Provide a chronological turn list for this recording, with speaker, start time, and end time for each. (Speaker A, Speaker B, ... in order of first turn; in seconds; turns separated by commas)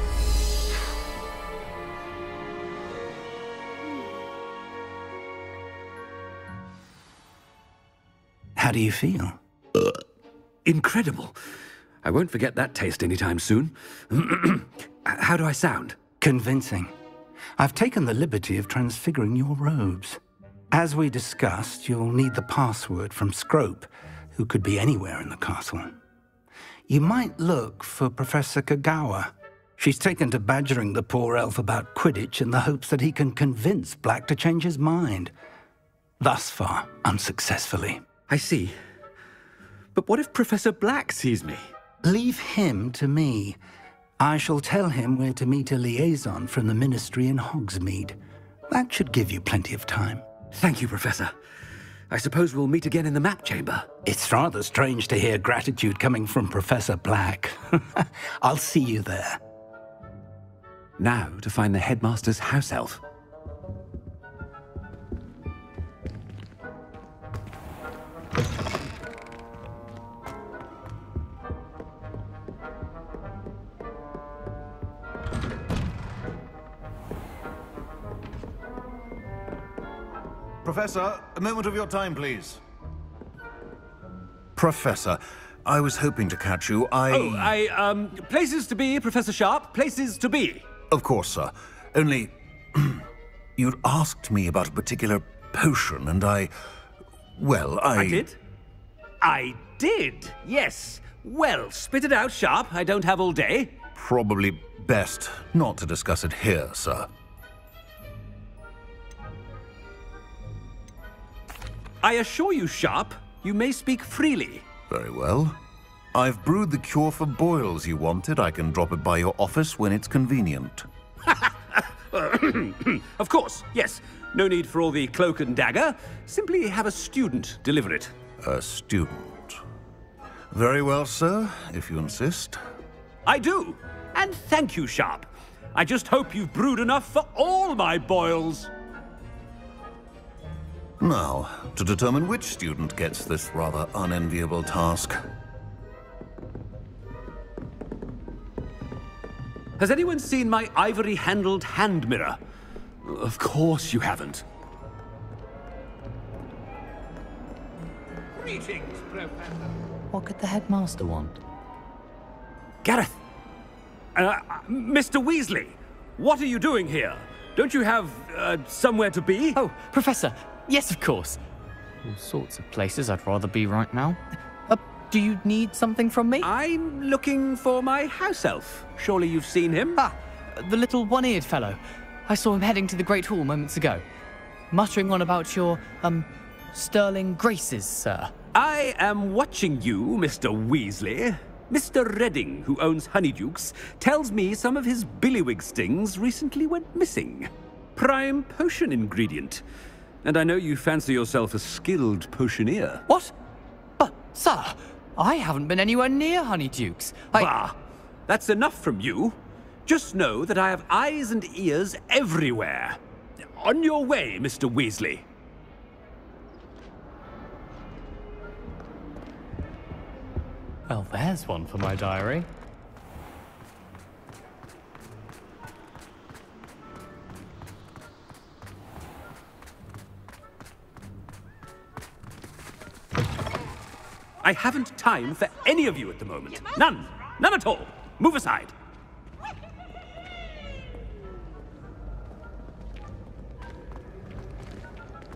Speaker A: 8.6-9.4, Speaker B: 10.7-11.3, Speaker B: 12.0-16.0, Speaker A: 16.2-16.9, Speaker A: 17.6-20.2, Speaker A: 20.7-25.9, Speaker A: 26.9-35.3, Speaker A: 36.2-38.0, Speaker B: 38.3-38.8, Speaker B: 40.0-41.7, Speaker A: 42.0-43.6, Speaker A: 44.2-48.2, Speaker A: 48.7-50.2, Speaker B: 50.5-51.3, Speaker B: 52.1-53.9, Speaker A: 54.0-59.4, Speaker B: 61.0-63.0, Speaker C: 80.7-82.6, Speaker C: 84.6-87.5, Speaker B: 87.1-90.7, Speaker C: 90.9-93.0, Speaker C: 93.6-96.5, Speaker C: 97.4-98.1, Speaker B: 98.0-98.4, Speaker B: 99.2-103.8, Speaker C: 104.0-107.1, Speaker B: 112.0-114.7, Speaker C: 114.9-115.6, Speaker C: 116.2-120.8, Speaker B: 121.3-128.1, Speaker C: 128.4-129.4, Speaker C: 130.5-132.6, Speaker B: 133.3-138.7, Speaker C: 141.0-145.2, Speaker B: 149.8-152.4, Speaker B: 153.0-154.4, Speaker B: 158.4-159.2, Speaker D: 160.1-161.4, Speaker B: 162.8-163.2, Speaker B: 164.2-169.6, Speaker D: 169.5-171.4, Speaker D: 172.0-176.5, Speaker B: 176.4-180.0, Speaker D: 180.0-184.1, Speaker D: 184.7-188.3, Speaker B: 188.6-199.6, Speaker B: 200.2-203.0, Speaker D: 204.0-207.5, Speaker B: 207.3-207.7, Speaker B: 208.3-213.0, Speaker B: 213.6-215.2, Speaker D: 220.9-222.5, Speaker B: 234.4-238.8